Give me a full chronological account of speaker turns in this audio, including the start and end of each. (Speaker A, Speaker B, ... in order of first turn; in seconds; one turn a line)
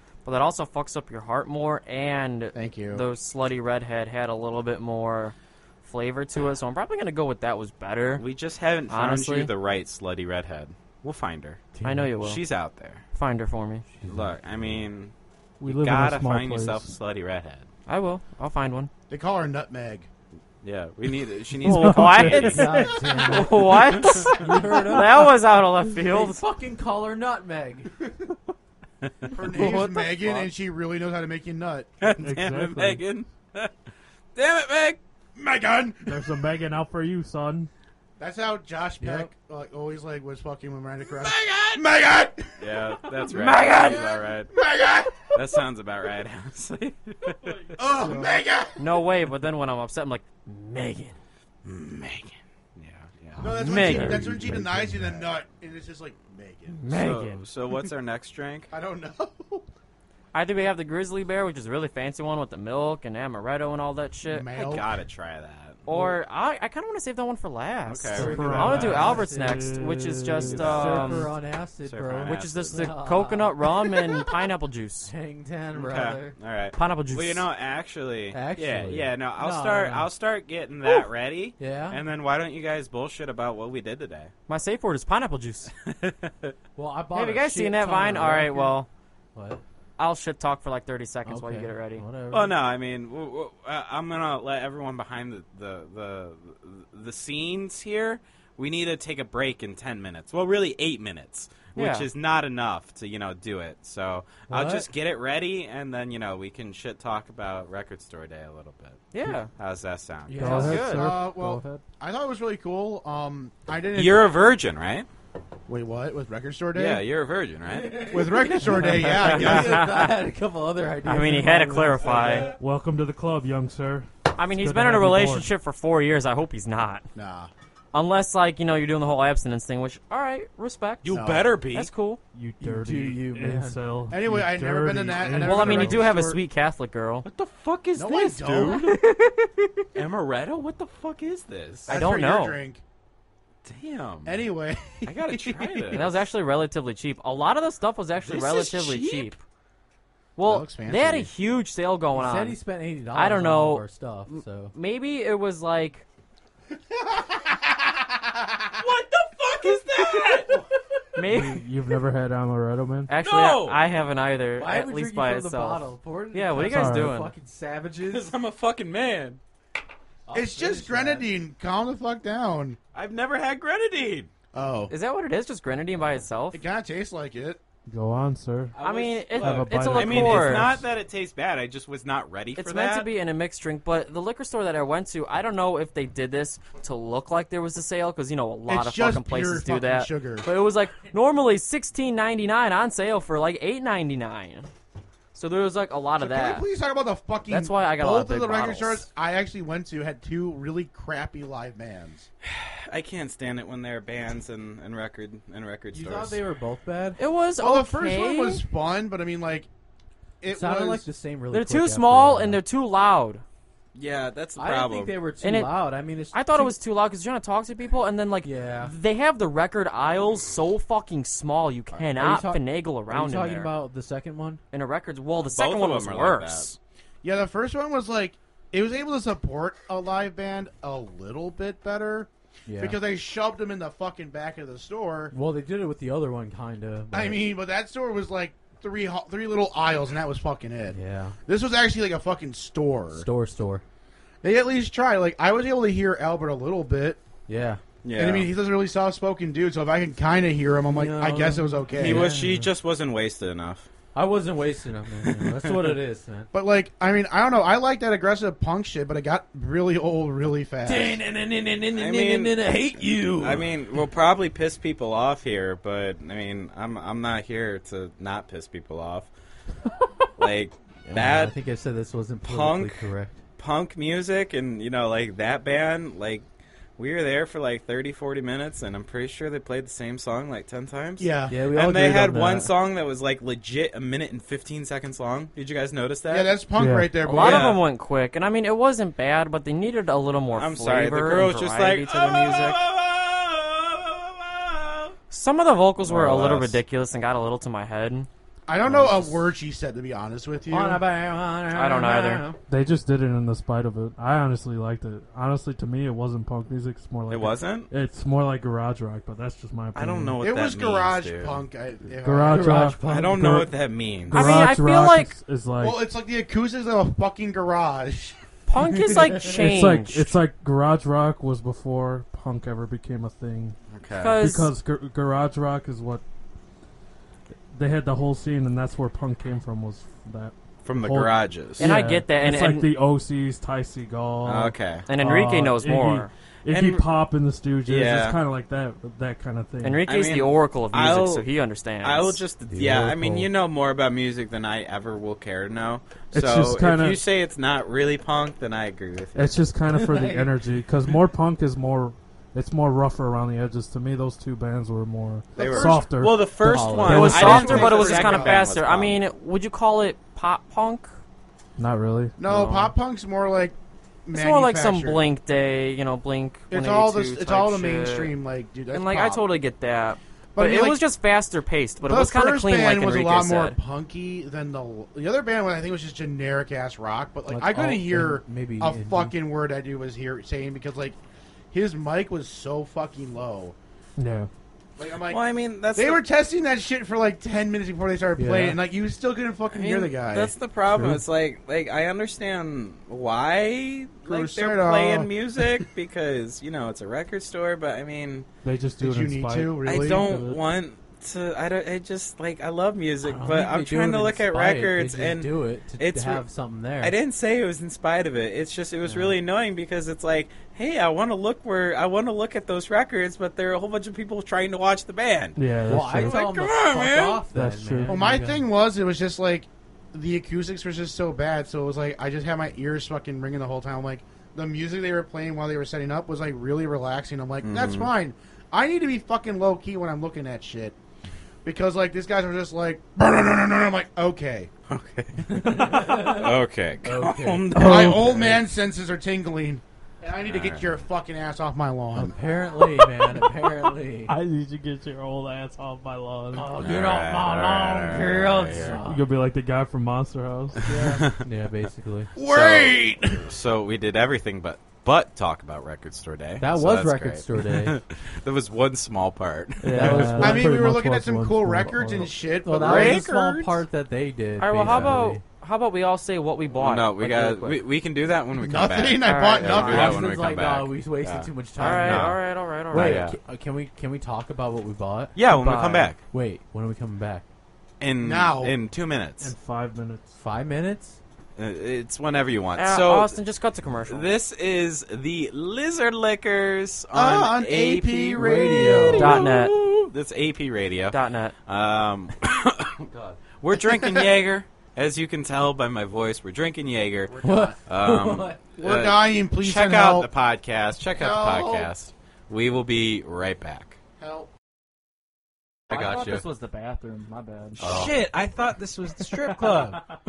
Speaker A: 0.2-8.2
Speaker B: 2.5-3.1
Speaker C: 8.2-11.6
Speaker A: 8.9-9.5
Speaker D: 11.8-12.1
Speaker A: 11.8-12.4
Speaker C: 12.2-13.0
Speaker A: 13.1-13.8
Speaker D: 13.9-14.4
Speaker C: 14.1-15.1
Speaker E: 15.6-16.9
Speaker C: 15.7-17.6
Speaker A: 17.9-18.9
Speaker B: 19.1-20.1
Speaker C: 20.6-22.8
Speaker E: 21.6-22.9
Speaker A: 21.6-26.4
Speaker D: 22.4-25.3
Speaker C: 23.7-24.4
Speaker D: 26.0-27.9
Speaker B: 29.3-32.1
Speaker A: 29.5-30.5
Speaker C: 32.0-33.7
Speaker E: 32.2-33.1
Speaker C: 34.4-35.0
Speaker B: 35.4-36.2
Speaker E: 36.0-37.7
Speaker B: 38.2-42.5
Speaker D: 39.0-39.3
Speaker C: 41.2-41.9
Speaker C: 42.6-44.5
Speaker A: 43.4-44.0
Speaker B: 43.6-45.3
Speaker C: 45.3-47.7
Speaker B: 47.8-48.8
Speaker E: 47.9-48.3
Speaker A: 48.8-51.2
Speaker C: 51.6-53.4
Speaker B: 53.4-56.8
Speaker A: 53.5-54.2
Speaker E: 53.8-54.3
Speaker D: 53.9-55.2
Speaker A: 56.7-57.5
Speaker C: 56.9-58.7
Speaker B: 58.7-59.7
Speaker A: 60.3-64.8
Speaker B: 64.3-64.9
Speaker C: 64.6-65.8
Speaker A: 65.9-71.3
Speaker D: 65.9-66.2
Speaker C: 67.9-68.6
Speaker D: 68.2-69.7
Speaker E: 68.2-70.7
Speaker C: 70.4-71.3
Speaker D: 70.5-73.6
Speaker C: 71.8-72.9
Speaker A: 72.2-75.1
Speaker D: 75.0-76.4
Speaker C: 75.7-84.3
Speaker A: 76.8-77.5
Speaker D: 78.3-80.1
Speaker D: 81.6-82.0
Speaker A: 84.5-85.7
Speaker C: 85.8-86.5
Speaker D: 86.8-88.8
Speaker A: 87.1-88.9
Speaker D: 89.3-89.6
Speaker A: 90.0-92.0
Speaker D: 91.2-92.6
Speaker C: 92.3-110.7
Speaker A: 101.8-102.1
Speaker D: 104.5-104.9
Speaker A: 109.1-109.5
Speaker D: 110.3-111.8
Speaker E: 110.3-111.6
Speaker A: 110.4-111.1
Speaker B: 110.9-114.4
Speaker C: 113.9-115.1
Speaker B: 115.7-117.0
Speaker C: 116.7-119.7
Speaker D: 117.7-122.5
Speaker B: 118.1-119.8
Speaker A: 119.2-120.1
Speaker A: 121.1-122.5
Speaker E: 122.5-125.5
Speaker A: 124.3-127.0
Speaker B: 127.2-127.5
Speaker A: 127.9-131.1
Speaker C: 131.0-131.9
Speaker B: 131.1-131.6
Speaker A: 131.7-132.2
Speaker E: 132.3-136.1
Speaker D: 132.6-133.8
Speaker B: 134.1-136.4
Speaker A: 135.4-137.3
Speaker C: 137.3-139.0
Speaker B: 138.0-139.0
Speaker A: 138.7-139.8
Speaker C: 139.9-141.9
Speaker A: 141.9-142.6
Speaker B: 141.9-142.8
Speaker C: 143.6-144.4
Speaker B: 144.2-146.0
Speaker C: 145.1-146.2
Speaker A: 145.9-149.4
Speaker C: 148.2-149.3
Speaker A: 150.4-152.6
Speaker B: 150.4-151.3
Speaker D: 152.1-154.7
Speaker A: 153.1-156.0
Speaker C: 158.8-160.6
Speaker A: 161.2-161.6
Speaker E: 161.3-163.1
Speaker A: 163.1-167.3
Speaker C: 163.2-163.8
Speaker D: 164.6-168.4
Speaker E: 166.6-167.1
Speaker C: 168.1-169.4
Speaker D: 170.3-171.3
Speaker B: 170.3-172.8
Speaker C: 172.9-174.3
Speaker B: 174.5-174.9
Speaker A: 174.9-176.6
Speaker B: 176.5-177.6
Speaker E: 177.9-178.8
Speaker C: 178.8-183.1
Speaker A: 178.8-180.7
Speaker E: 179.4-180.8
Speaker A: 182.6-194.7
Speaker B: 188.7-190.5
Speaker A: 195.3-196.7
Speaker B: 196.2-202.3
Speaker A: 197.5-199.1
Speaker C: 202.4-206.4
Speaker D: 205.9-207.2
Speaker A: 207.2-208.6
Speaker B: 207.6-209.7
Speaker B: 210.4-211.1
Speaker D: 210.5-212.6
Speaker A: 211.5-213.4
Speaker C: 213.9-215.2
Speaker D: 214.6-216.8
Speaker A: 215.4-215.8
Speaker A: 216.3-223.7
Speaker D: 218.4-218.9
Speaker D: 222.0-224.6
Speaker A: 224.7-226.8
Speaker C: 225.4-226.7
Speaker B: 227.2-235.3
Speaker D: 232.7-233.0
Speaker D: 235.3-237.5
Speaker B: 237.1-243.3
Speaker D: 240.9-241.4
Speaker D: 243.1-243.8
Speaker B: 244.4-247.2
Speaker D: 247.5-247.8
Speaker C: 248.0-248.5
Speaker B: 248.2-252.3
Speaker D: 250.9-252.7
Speaker C: 251.9-253.9
Speaker D: 254.1-256.5
Speaker C: 255.3-255.7
Speaker B: 256.5-261.2
Speaker D: 260.8-263.8
Speaker C: 261.9-262.8
Speaker C: 263.4-269.3
Speaker C: 270.4-271.5
Speaker D: 271.1-273.4
Speaker C: 272.4-273.0
Speaker C: 273.6-276.4
Speaker C: 277.0-286.5
Speaker B: 281.2-281.6
Speaker D: 281.5-282.7
Speaker B: 286.3-287.8
Speaker E: 286.8-287.1
Speaker A: 287.2-292.8
Speaker C: 287.4-287.8
Speaker C: 290.6-295.1
Speaker A: 295.3-298.3
Speaker C: 296.0-296.8
Speaker B: 298.7-301.0
Speaker D: 298.8-299.4
Speaker D: 300.7-302.6
Speaker A: 301.7-302.4
Speaker E: 302.7-310.4
Speaker C: 307.3-307.9
Speaker C: 309.9-311.6
Speaker B: 310.4-312.9
Speaker E: 312.2-313.7
Speaker D: 312.5-313.7
Speaker C: 313.1-314.5
Speaker E: 314.3-316.0
Speaker A: 314.3-315.3
Speaker B: 315.8-318.4
Speaker A: 318.7-320.4
Speaker E: 319.4-323.8
Speaker C: 323.9-324.4
Speaker A: 324.2-324.7
Speaker E: 324.4-326.2
Speaker E: 327.7-340.0
Speaker C: 330.9-331.9
Speaker A: 331.8-332.9
Speaker C: 334.4-335.1
Speaker A: 335.1-336.3
Speaker C: 336.7-337.1
Speaker C: 337.9-338.4
Speaker A: 339.8-342.4
Speaker C: 340.1-341.5
Speaker C: 342.0-349.6
Speaker D: 342.7-343.5
Speaker E: 346.3-347.2
Speaker E: 349.4-357.8
Speaker D: 349.9-350.6
Speaker B: 355.6-356.1
Speaker C: 355.6-359.2
Speaker D: 356.6-357.6
Speaker A: 357.1-361.1
Speaker B: 357.2-358.6
Speaker E: 361.8-362.4
Speaker B: 362.4-365.3
Speaker A: 362.4-362.9
Speaker A: 364.3-368.4
Speaker B: 366.7-369.4
Speaker A: 368.9-373.8
Speaker B: 370.6-371.0
Speaker B: 372.1-381.2
Speaker D: 377.5-379.4
Speaker B: 381.7-383.8
Speaker E: 384.2-384.5
Speaker B: 385.0-385.4
Speaker C: 385.3-386.2
Speaker B: 385.9-390.5
Speaker D: 388.4-388.8
Speaker C: 389.7-398.5
Speaker E: 390.9-391.2
Speaker B: 394.3-395.3
Speaker E: 398.6-400.6
Speaker B: 399.0-400.3
Speaker C: 399.9-406.4
Speaker D: 403.2-407.2
Speaker C: 407.0-417.4
Speaker D: 409.1-409.4
Speaker E: 415.6-416.4
Speaker D: 415.9-418.7
Speaker E: 417.5-418.2
Speaker B: 418.1-431.0
Speaker C: 427.6-428.1
Speaker B: 431.6-434.7
Speaker C: 434.9-438.6
Speaker D: 435.4-438.6
Speaker B: 437.8-442.4
Speaker C: 440.4-440.9
Speaker D: 442.1-444.3
Speaker E: 444.3-446.7
Speaker D: 446.5-449.3
Speaker C: 446.8-449.0
Speaker E: 449.1-450.9
Speaker D: 450.9-452.3
Speaker C: 450.9-451.4
Speaker B: 452.4-453.4
Speaker C: 452.4-460.4
Speaker D: 456.6-458.0
Speaker E: 459.8-462.3
Speaker D: 459.9-460.7
Speaker B: 460.4-463.3
Speaker D: 462.6-465.4
Speaker C: 462.8-463.8
Speaker A: 464.6-467.8
Speaker C: 464.8-465.1
Speaker C: 466.7-473.4
Speaker B: 468.6-470.3
Speaker A: 469.2-469.8
Speaker D: 469.7-472.4
Speaker A: 471.8-473.3
Speaker D: 472.9-475.4
Speaker C: 475.4-476.2
Speaker A: 475.5-476.1
Speaker D: 476.3-477.4
Speaker C: 478.0-479.5
Speaker B: 478.2-478.8
Speaker E: 479.4-480.4
Speaker D: 480.4-481.2
Speaker C: 481.6-483.4
Speaker A: 482.8-484.4
Speaker C: 484.1-497.3
Speaker B: 487.1-489.4
Speaker D: 488.4-489.5
Speaker A: 489.1-489.8
Speaker A: 491.1-491.5
Speaker B: 497.3-497.8
Speaker D: 497.4-498.6
Speaker C: 497.9-504.0
Speaker B: 498.8-500.3
Speaker B: 501.2-501.9
Speaker B: 504.2-504.5
Speaker C: 505.9-506.4
Speaker D: 505.9-506.4
Speaker F: 505.9-508.1
Speaker D: 507.8-508.2
Speaker C: 507.8-510.1
Speaker D: 509.2-510.0